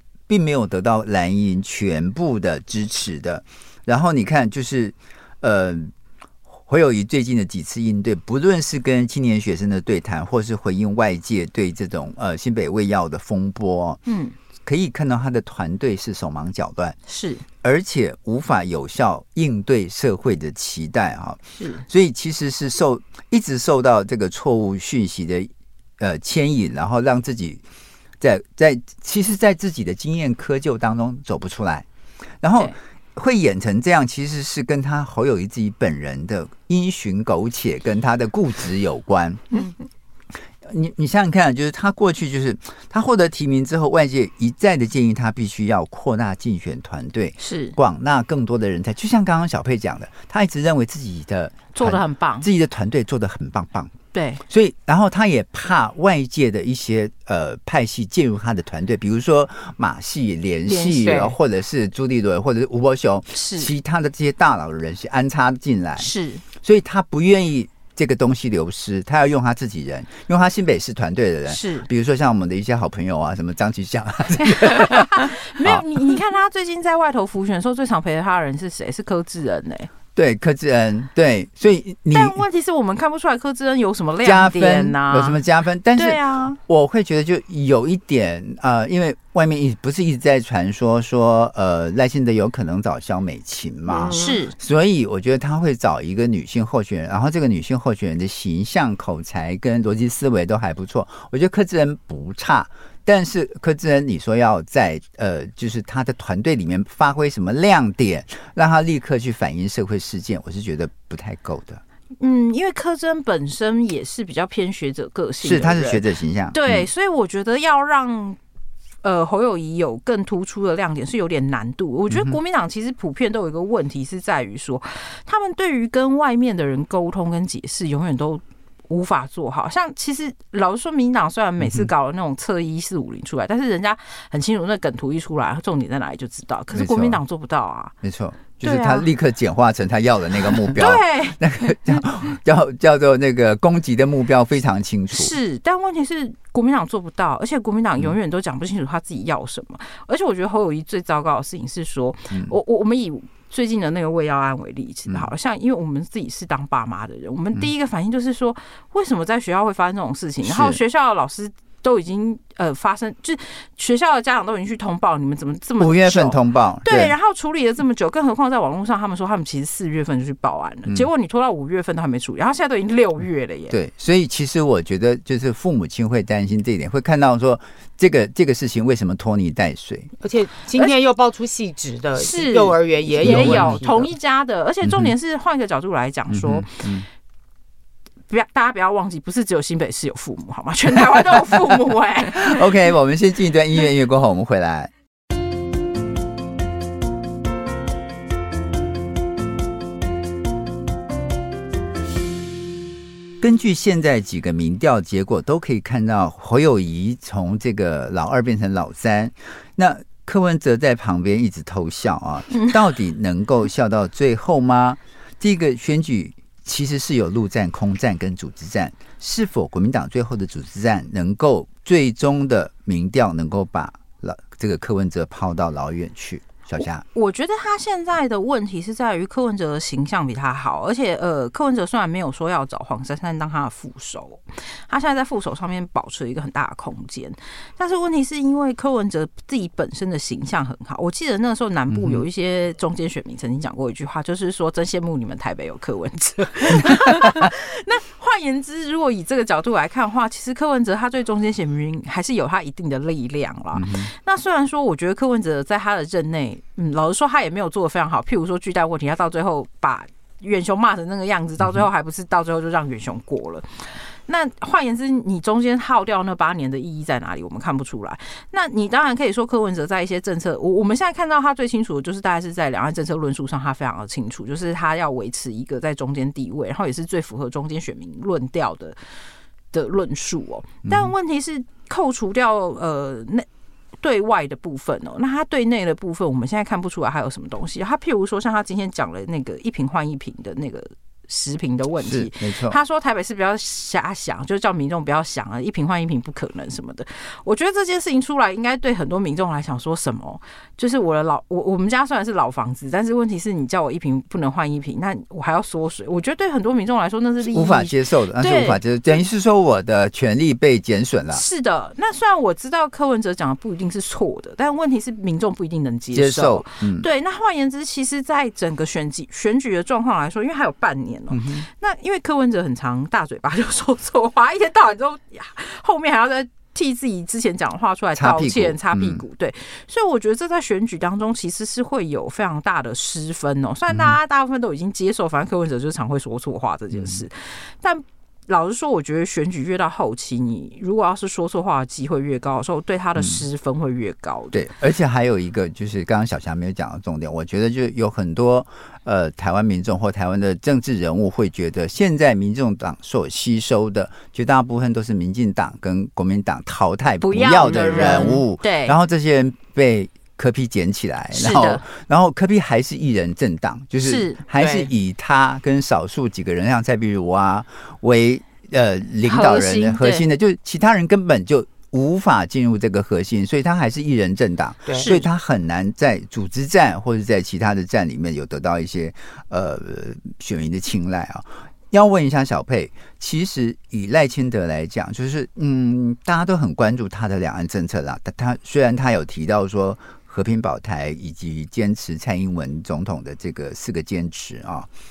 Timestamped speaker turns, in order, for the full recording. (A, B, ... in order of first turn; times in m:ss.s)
0:00.3-0:05.9 A
0:06.6-0:14.0 A
0:14.0-0:14.3 B
0:14.6-0:17.0 A
0:17.1-0:17.4 B
0:17.6-0:27.6 A
0:21.6-0:21.8 B
0:28.2-0:31.8 A
0:32.4-0:39.5 A
0:40.6-0:53.9 A
0:47.4-0:47.8 B
0:51.7-0:52.5 B
0:54.1-0:54.4 B
0:54.5-1:15.8 A
1:00.6-1:01.3 B
1:01.0-1:01.3 C
1:03.3-1:03.7 B
1:06.0-1:06.4 B
1:11.5-1:11.9 B
1:14.4-1:19.9 B
1:20.1-1:22.4 A
1:22.1-1:25.4 B
1:24.2-1:51.8 A
1:26.0-1:26.6 B
1:33.9-1:34.4 C
1:34.1-1:34.5 B
1:52.2-1:58.4 B
1:55.4-1:56.9 A
1:59.0-2:17.9 B
2:02.1-2:02.4 A
2:11.6-2:11.9 A
2:16.7-2:17.2 A
2:18.0-2:25.3 A
2:18.6-2:19.1 B
2:20.7-2:22.0 B
2:25.1-2:53.7 B
2:40.4-2:40.8 A
2:45.8-2:47.1 A
2:53.7-3:00.1 A
3:00.2-3:04.1 C
3:02.2-3:06.9 B
3:03.2-3:03.8 A
3:04.8-3:05.1 A
3:06.3-3:07.0 A
3:08.3-3:12.7 B
3:11.1-3:14.9 A
3:23.4-3:47.0 A
3:47.1-4:39.0 B
4:01.9-4:02.2 A
4:06.8-4:07.4 A
4:13.7-4:14.1 A
4:39.7-4:43.4 B
4:40.8-4:41.1 A
4:44.0-5:08.8 B
4:52.0-4:52.8 A
5:07.4-5:11.4 A
5:11.3-5:44.6 B
5:16.1-5:17.1 A
5:21.3-5:21.6 A
5:28.1-5:29.2 A
5:33.9-5:34.2 A
5:36.9-5:37.2 A
5:43.2-5:43.4 A
5:44.5-6:34.9 A
5:57.2-5:58.9 B
5:57.6-5:58.4 C
6:01.3-6:01.8 B
6:04.0-6:04.4 B
6:04.6-6:04.9 C
6:09.2-6:10.2 B
6:14.8-6:15.1 C
6:15.0-6:15.2 B